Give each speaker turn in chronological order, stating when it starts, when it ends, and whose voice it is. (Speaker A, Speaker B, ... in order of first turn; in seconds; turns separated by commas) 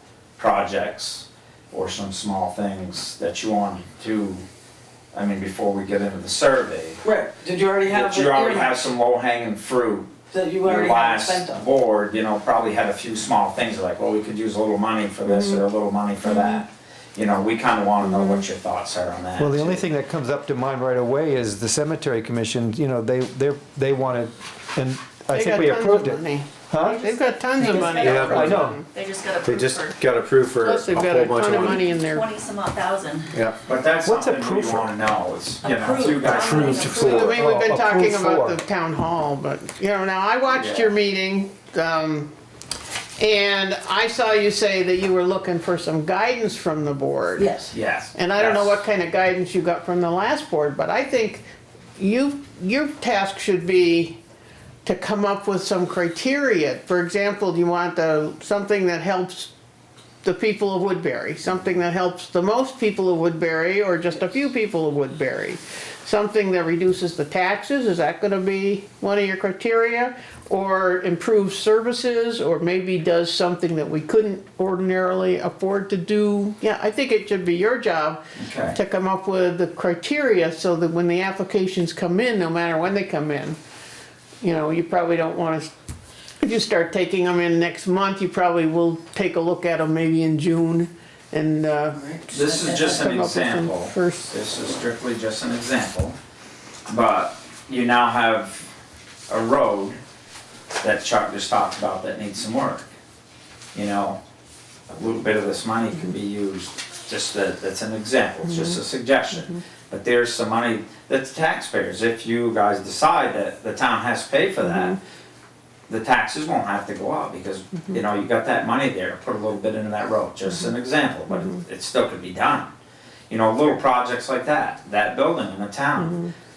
Speaker A: 0.4-4.4, Speaker A: 5.1-7.0, Speaker B: 7.0-8.9, Speaker A: 7.9-19.9, Speaker B: 10.3-11.6, Speaker C: 15.2-15.7, Speaker C: 16.2-16.6, Speaker C: 18.0-18.4, Speaker D: 19.4-27.1, Speaker C: 25.3-28.9, Speaker E: 26.8-30.0, Speaker D: 27.8-28.8, Speaker F: 28.2-28.7, Speaker F: 29.4-31.9, Speaker C: 30.6-32.3, Speaker E: 31.6-33.3, Speaker A: 33.6-37.0, Speaker D: 34.0-34.9, Speaker E: 35.6-37.5, Speaker D: 36.1-38.6, Speaker C: 36.6-42.3, Speaker A: 40.5-40.9, Speaker C: 43.2-47.6, Speaker B: 47.4-47.7, Speaker A: 47.7-48.8, Speaker C: 48.1-51.5, Speaker C: 52.0-54.2, Speaker C: 54.8-59.5, Speaker C: 60.2-83.6, Speaker A: 78.4-78.8, Speaker C: 84.4-85.7, Speaker C: 86.4-94.3, Speaker B: 91.9-92.9, Speaker A: 92.3-96.2, Speaker A: 96.9-98.7, Speaker A: 99.3-100.0, Speaker A: 100.8-102.9, Speaker A: 103.7-104.2, Speaker A: 104.9-115.0, Speaker C: 108.5-108.8, Speaker C: 114.6-115.0, Speaker A: 115.9-122.7, Speaker C: 121.3-121.6, Speaker A: 123.3-126.2, Speaker C: 126.0-126.3